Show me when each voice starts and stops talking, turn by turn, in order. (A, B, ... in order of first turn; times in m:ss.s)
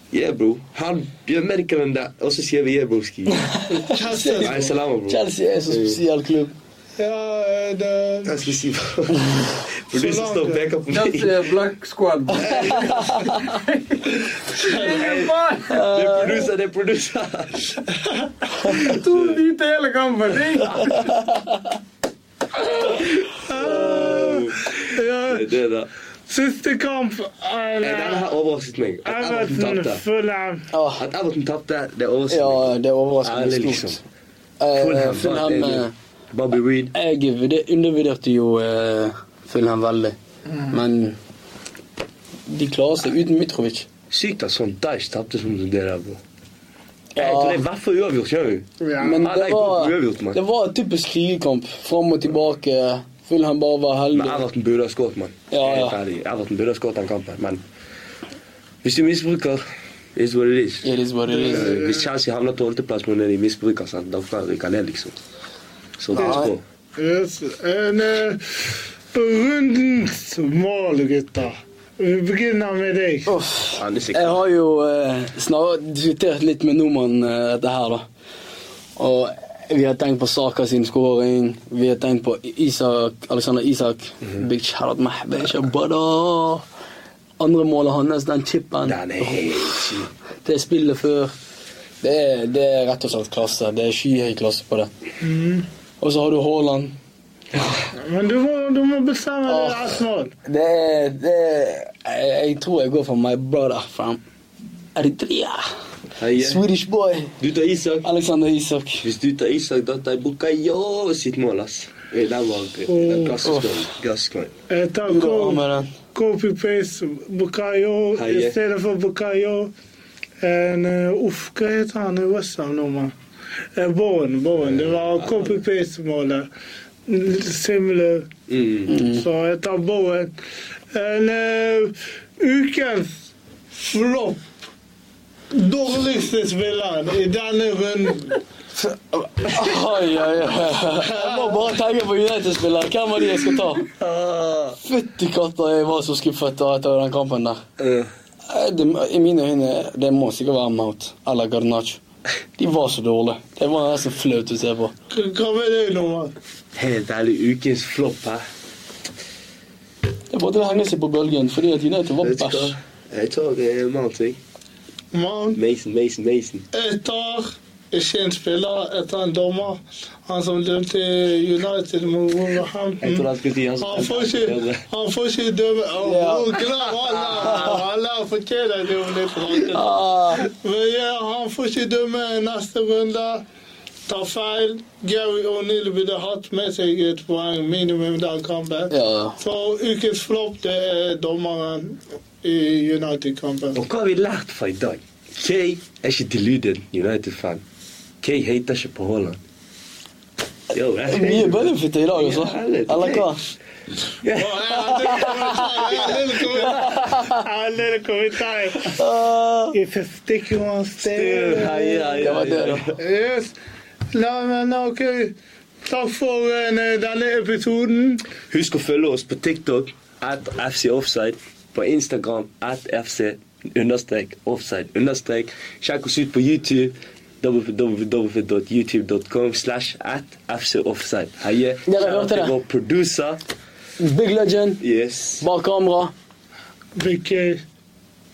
0:00.1-0:03.4 A
0:03.3-0:06.5 B
0:03.7-0:04.7 C
0:04.4-0:06.0 A
0:07.0-0:08.4 C
0:08.2-0:11.5 A
0:09.9-0:10.8 C
0:10.9-0:15.9 D
0:12.4-0:13.5 A
0:14.7-0:17.7 A
0:15.7-0:16.5 B
0:18.6-0:21.2 D
0:18.7-0:19.4 A
0:22.7-0:25.5 C
0:23.5-0:25.9 A
0:26.3-0:28.3 C
0:27.8-0:30.0 A
0:29.0-0:30.7 C
0:30.7-0:31.0 B
0:31.0-0:32.7 A
0:32.3-0:34.0 B
0:33.2-0:34.0 A
0:34.6-0:35.9 B
0:34.7-0:36.9 A
0:36.9-0:40.1 B
0:40.7-0:41.2 B
0:42.5-0:43.9 B
0:44.1-0:46.2 A
0:47.1-0:47.6 B
0:47.2-0:50.4 A
0:48.8-0:49.3 C
0:49.0-0:54.4 B
0:54.1-0:57.6 A
0:55.5-0:56.0 B
0:58.8-0:59.6 A
1:00.1-1:00.9 A
1:00.8-1:01.7 B
1:01.3-1:02.0 C
1:01.4-1:05.2 A
1:06.0-1:06.6 A
1:06.1-1:06.5 B
1:06.2-1:13.3 C
1:13.3-1:18.0 B
1:13.8-1:14.4 A
1:19.0-1:26.6 B
1:27.4-1:29.9 B
1:28.8-1:30.1 A
1:30.4-1:31.3 B
1:32.0-1:34.9 B
1:35.2-1:35.6 C
1:36.0-1:36.9 B
1:37.9-1:40.3 C
1:39.4-1:39.9 B
1:40.4-1:44.2 B
1:44.9-1:45.6 B
1:46.2-1:46.6 A
1:46.4-1:47.3 B
1:47.4-1:48.0 A
1:48.0-1:49.0 B
1:49.0-1:54.5 A
1:52.9-1:53.4 C
1:53.4-1:53.8 B
1:54.7-1:59.7 C
1:55.1-1:55.9 B
1:58.2-1:58.6 A
2:00.4-2:03.1 C
2:03.8-2:06.5 C
2:04.7-2:05.5 A
2:07.1-2:08.3 C
2:08.5-2:08.9 A
2:08.9-2:09.2 B
2:09.0-2:10.3 C
2:10.9-2:13.1 C
2:13.7-2:14.4 C
2:15.5-2:18.4 C
2:19.4-2:19.7 C
2:19.5-2:23.9 B
2:20.9-2:21.6 C
2:23.9-2:24.8 A
2:24.8-2:27.6 B
2:27.8-2:28.1 A
2:28.5-2:32.0 B
2:32.6-2:34.9 B
2:35.1-2:36.3 C
2:36.7-2:38.4 A
2:40.3-2:42.7 B
2:42.2-2:44.4 A
2:45.1-2:45.6 C
2:45.5-2:46.6 A
2:46.7-3:03.4 C
2:53.0-2:54.8 A
2:56.0-2:56.6 B
2:57.3-2:57.8 B
2:59.7-3:00.5 B
3:04.1-3:13.8 C
3:08.9-3:09.4 B
3:13.7-3:17.6 A
3:18.2-3:19.4 A
3:20.7-3:23.3 A
3:21.1-3:23.4 B
3:24.2-3:26.1 A
3:24.3-3:29.0 C
3:24.9-3:27.4 B
3:28.8-3:29.8 B
3:29.7-3:32.3 C
3:31.0-3:33.0 A
3:32.2-3:32.8 B
3:33.0-3:33.5 C
3:34.1-3:35.3 C
3:35.8-3:38.3 C
3:38.5-3:53.4 A
3:51.8-3:52.5 B
3:54.0-3:54.8 B
3:54.8-3:55.4 A
3:55.4-3:56.1 B
3:57.0-3:57.6 C